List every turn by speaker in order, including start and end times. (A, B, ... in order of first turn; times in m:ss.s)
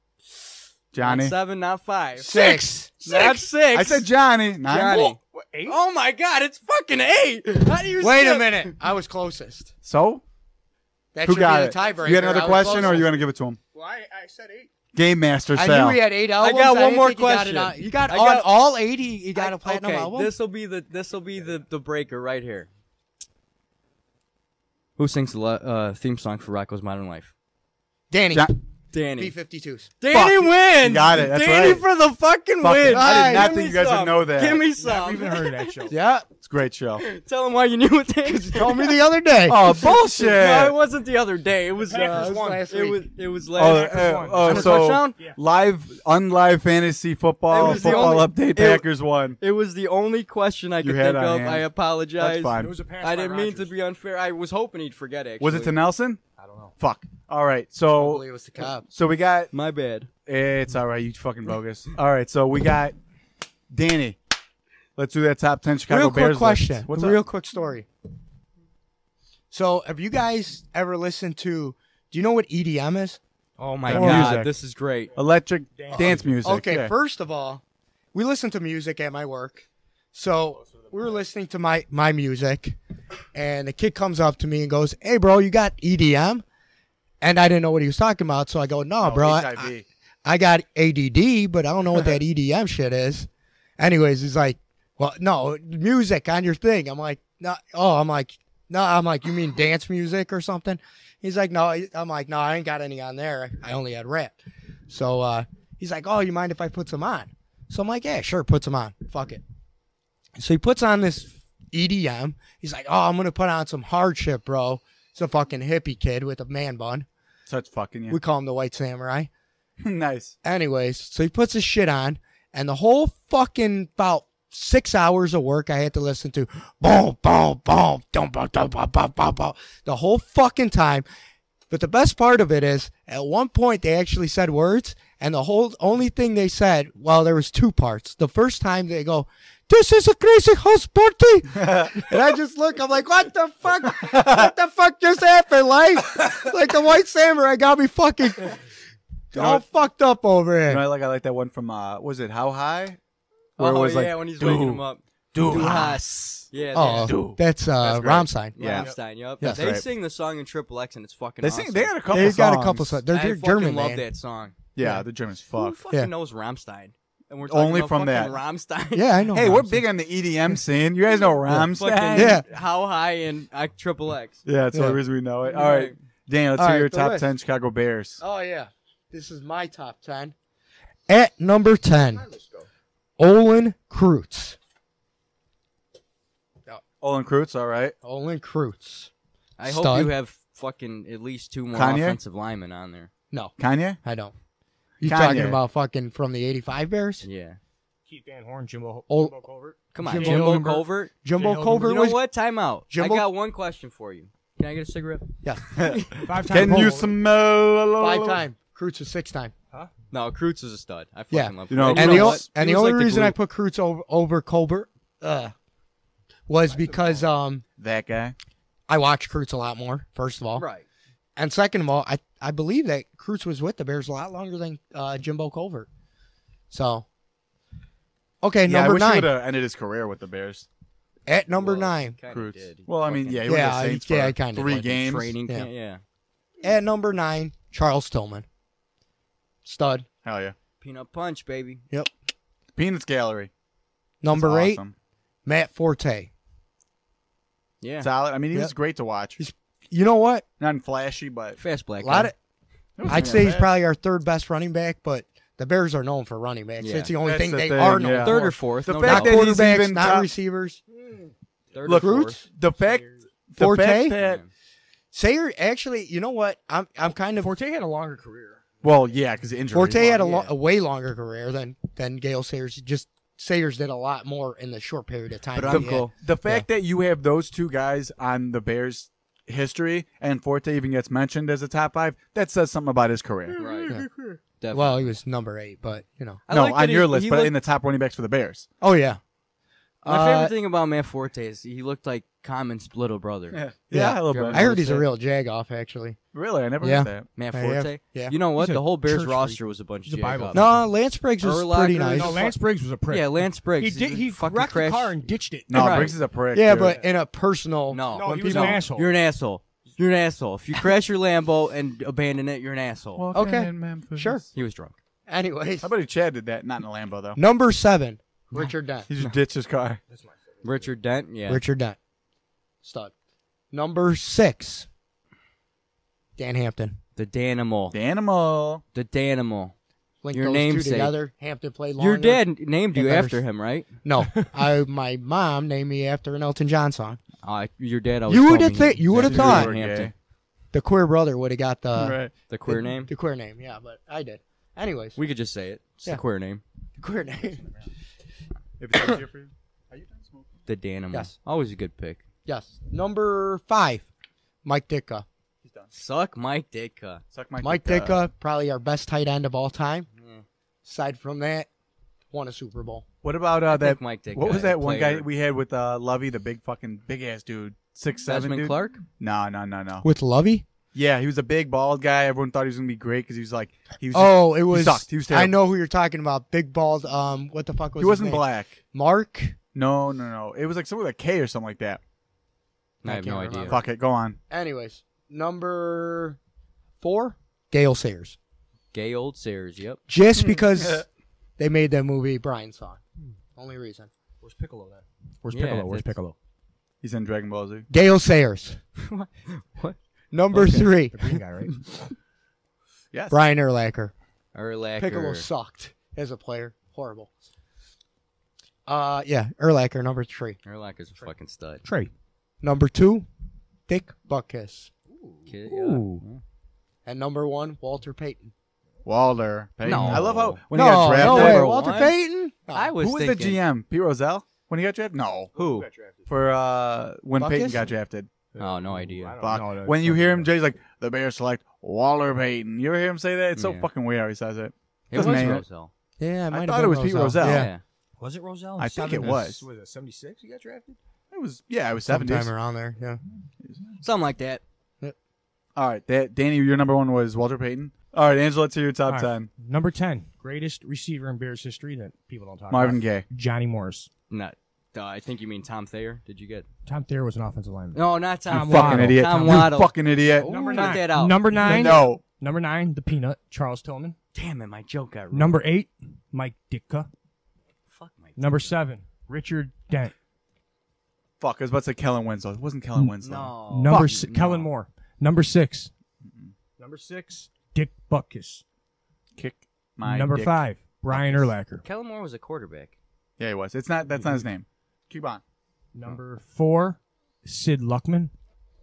0:00.9-0:01.3 A
0:01.0-0:04.1 B
0:02.2-0:03.4 C
0:03.7-0:05.1 A
0:04.6-0:08.7 B
0:05.3-0:05.8 D
0:08.0-0:09.7 C
0:09.8-0:10.2 A
0:11.1-0:13.1 C
0:11.2-0:13.6 A
0:12.0-0:13.1 D
0:13.7-0:14.7 D
0:14.9-0:16.0 A
0:15.5-0:20.3 C
0:16.4-0:18.5 B
0:19.3-0:22.7 B
0:25.0-0:27.3 B
0:28.1-0:28.5 C
0:28.9-0:29.3 B
0:29.2-0:29.9 C
0:30.0-0:35.9 B
0:30.1-0:31.8 A
0:32.6-0:34.6 A
0:32.9-0:33.5 C
0:34.8-0:35.9 D
0:35.9-0:36.3 C
0:36.4-0:37.0 A
0:37.0-0:39.0 B
0:38.2-0:39.7 C
0:39.4-0:40.8 A
0:39.6-0:45.2 B
0:41.8-0:42.6 D
0:41.9-0:43.1 C
0:43.5-0:49.4 A
0:43.6-0:45.4 D
0:44.5-0:44.8 C
0:47.5-0:55.8 B
0:47.7-0:48.1 C
0:47.7-0:48.0 D
0:50.8-0:52.7 A
0:52.5-0:53.7 D
0:55.4-0:56.2 A
0:56.4-0:56.7 D
0:56.8-0:58.2 A
0:57.9-0:58.8 C
0:58.9-0:59.5 A
0:59.5-1:00.1 B
1:00.2-1:02.9 A
1:03.7-1:04.2 A
1:05.0-1:07.2 A
1:05.9-1:07.9 C
1:09.5-1:13.2 C
1:13.6-1:15.1 B
1:13.8-1:14.4 C
1:13.9-1:14.5 A
1:15.1-1:16.9 A
1:15.8-1:16.4 D
1:15.9-1:17.6 C
1:18.1-1:22.8 C
1:23.3-1:26.4 C
1:27.2-1:29.7 C
1:29.0-1:29.8 A
1:30.2-1:44.4 C
1:44.9-1:49.4 C
1:50.4-1:57.1 C
1:57.5-1:58.2 A
1:58.1-1:59.3 C
1:59.8-2:00.3 A
2:00.4-2:11.0 C
2:11.7-2:28.6 C
2:21.6-2:22.1 A
2:24.2-2:24.5 A
2:29.3-2:30.8 C
2:29.3-2:29.6 A
2:30.7-2:33.0 A
2:33.6-2:37.2 B
2:33.6-2:38.9 A
2:35.5-2:35.8 C
2:36.7-2:38.6 C
2:38.6-2:42.0 B
2:39.4-2:39.7 C
2:39.4-2:39.9 A
2:41.4-2:43.0 A
2:42.1-2:44.0 C
2:43.1-2:44.5 B
2:44.7-2:45.8 A
2:44.8-2:45.0 C
2:45.5-2:49.2 B
2:47.5-2:48.4 A
2:48.9-2:49.8 C
2:49.3-2:52.4 A
2:51.5-2:52.4 C
2:51.5-2:54.4 B
2:54.4-2:58.2 A
2:54.7-2:55.0 C
2:55.4-2:55.9 B
2:56.6-2:57.3 C
2:58.2-3:00.3 C
3:01.1-3:02.2 C
3:02.2-3:02.6 D
3:03.2-3:04.6 C
3:07.0-3:07.9 A
3:08.0-3:09.1 C
3:09.6-3:13.1 B
3:09.6-3:10.1 C
3:11.7-3:12.2 A
3:13.3-3:14.3 C
3:13.6-3:14.0 A
3:15.0-3:17.2 C
3:15.0-3:15.6 A
3:17.2-3:17.6 B
3:18.1-3:22.0 D
3:19.1-3:19.4 C
3:19.9-3:21.1 B
3:20.0-3:22.2 C
3:21.7-3:26.1 B
3:22.9-3:23.2 C
3:25.7-3:28.4 A
3:26.2-3:27.1 D
3:28.0-3:29.5 C
3:30.1-3:33.4 B
3:31.3-3:35.5 C
3:31.7-3:32.5 A
3:36.5-3:37.6 C
3:36.7-3:37.2 D
3:37.8-3:38.3 A
3:38.9-3:40.6 C
3:40.5-3:40.8 B
3:41.4-3:45.9 C
3:46.7-3:47.0 C
3:48.4-3:49.3 C
3:48.6-3:50.7 A
3:51.3-3:52.2 C
3:51.6-3:53.4 B
3:52.3-3:55.3 A
3:53.4-3:55.7 C
3:54.8-3:56.0 B
3:56.6-3:58.4 C
3:59.6-4:00.1 C
4:00.2-4:00.5 A
4:00.8-4:01.8 B
4:02.8-4:03.5 A
4:04.2-4:04.8 C
4:04.3-4:04.9 A
4:05.4-4:06.3 C
4:07.8-4:08.1 B
4:08.0-4:09.4 A
4:09.4-4:10.4 C
4:10.6-4:11.6 A
4:11.6-4:12.3 B
4:12.0-4:12.3 C
4:13.0-4:13.7 A
4:13.0-4:20.8 C
4:13.1-4:13.4 B
4:16.8-4:17.1 B
4:17.2-4:20.3 A
4:18.0-4:19.4 B
4:20.9-4:21.3 D
4:21.7-4:22.4 B
4:21.8-4:24.4 A
4:21.9-4:22.4 C
4:23.6-4:24.2 C
4:24.2-4:24.5 B
4:25.1-4:27.5 C
4:27.4-4:28.6 D
4:28.8-4:30.2 A
4:29.7-4:36.6 C
4:30.2-4:30.5 B
4:35.5-4:36.1 B
4:35.7-4:43.6 A
4:43.5-4:44.4 D
4:43.6-4:44.0 B
4:44.6-4:45.1 B
4:44.7-4:46.4 C
4:46.5-4:47.6 B
4:46.5-4:48.7 A
4:48.8-4:49.2 C
4:50.0-4:50.5 C
4:50.0-4:53.6 B
4:53.5-4:55.0 A
4:53.9-4:56.2 C
4:54.3-4:55.0 B
4:56.3-4:57.3 A
4:56.8-4:58.3 C
4:57.4-5:00.6 B
4:58.6-5:00.8 D
5:00.5-5:02.5 C
5:01.4-5:02.5 B
5:02.1-5:06.1 D
5:03.1-5:06.1 B
5:05.7-5:07.0 A
5:06.5-5:08.8 C
5:06.8-5:07.0 D
5:07.9-5:13.2 B
5:08.1-5:09.1 D
5:13.2-5:14.4 A
5:13.3-5:14.4 C
5:14.5-5:15.0 B
5:15.3-5:15.9 C
5:15.8-5:17.4 A
5:17.4-5:19.1 C
5:19.1-5:20.0 A
5:20.1-5:20.9 D
5:20.6-5:21.6 B
5:21.5-5:22.0 C
5:22.8-5:23.1 C
5:23.7-5:24.9 C
5:26.4-5:27.0 C
5:27.2-5:27.9 B
5:27.9-5:28.8 A
5:28.9-5:29.7 B
5:30.2-5:32.4 C
5:30.3-5:31.1 B
5:32.0-5:33.9 B
5:32.9-5:33.4 C
5:34.0-5:37.2 C
5:37.4-5:40.1 B
5:38.3-5:39.7 C
5:39.1-5:40.1 A
5:40.7-5:45.2 C
5:41.9-5:42.3 A
5:42.5-5:43.1 B
5:45.2-5:46.6 B
5:47.0-5:47.7 C
5:48.8-5:50.5 A
5:50.7-5:52.2 B
5:52.4-5:54.1 C
5:54.6-5:55.2 C
5:55.6-5:55.9 A
5:55.9-5:57.2 B
5:57.3-5:58.2 A
5:57.6-6:00.1 C
6:00.2-6:00.4 B
6:00.8-6:01.7 C
6:02.3-6:03.0 C
6:03.2-6:10.0 A
6:03.7-6:05.2 B
6:08.3-6:09.0 B
6:10.0-6:10.6 C
6:10.9-6:15.5 A
6:14.1-6:19.6 C
6:18.0-6:18.8 A
6:19.7-6:22.0 A
6:23.0-6:23.8 B
6:23.0-6:23.8 C
6:23.6-6:24.4 A
6:24.5-6:26.4 C
6:27.0-6:28.4 C
6:28.9-6:30.0 B
6:30.1-6:31.0 C
6:30.4-6:31.0 A
6:31.6-6:33.0 C
6:33.5-6:34.1 C
6:34.4-6:36.3 D
6:35.5-6:36.1 B
6:37.0-6:37.9 A
6:37.9-6:38.8 C
6:39.0-6:40.0 B
6:40.3-6:41.4 C
6:40.5-6:40.9 B
6:41.1-6:41.8 D
6:43.1-6:43.4 A
6:43.3-6:44.1 C
6:44.5-6:45.5 B
6:45.0-6:47.3 C
6:48.9-6:50.6 C
6:50.6-6:51.8 B
6:51.8-6:52.1 D
6:52.6-6:53.3 C
6:53.9-6:54.9 C
6:55.1-6:56.2 D
6:55.5-6:56.4 B
6:57.0-6:58.5 C
6:59.0-7:01.7 A
6:59.8-7:02.2 B
6:59.9-7:00.2 D
7:00.7-7:02.9 C
7:02.7-7:03.6 B
7:03.0-7:05.5 A
7:05.5-7:06.3 D
7:05.6-7:05.9 B
7:06.3-7:08.3 A
7:07.4-7:07.8 C
7:08.5-7:10.5 D
7:08.6-7:09.4 B
7:09.4-7:15.6 A
7:13.6-7:13.9 B
7:15.1-7:15.9 B
7:15.2-7:15.6 C
7:16.2-7:17.7 C
7:16.5-7:17.7 A
7:17.4-7:17.8 B
7:18.2-7:21.0 D
7:18.8-7:19.6 A
7:21.3-7:22.5 A
7:22.0-7:23.2 C
7:24.0-7:24.6 B
7:25.8-7:29.5 A
7:29.1-7:34.1 D
7:32.7-7:33.2 A
7:34.3-7:36.7 B
7:36.8-7:39.7 D
7:37.9-7:42.0 B
7:38.5-7:40.5 A
7:40.4-7:44.2 D
7:41.6-7:42.2 A
7:44.3-7:45.6 B
7:45.3-7:47.1 D
7:47.9-7:48.7 B
7:48.4-7:50.1 D
7:51.4-7:54.6 A
7:53.2-7:54.4 B
7:53.7-7:55.9 D
7:56.8-7:58.6 D
7:59.4-8:00.6 A
8:00.0-8:01.8 D
8:01.1-8:01.5 A
8:01.8-8:02.9 B
8:03.4-8:05.4 A
8:04.2-8:04.4 D
8:05.9-8:08.3 D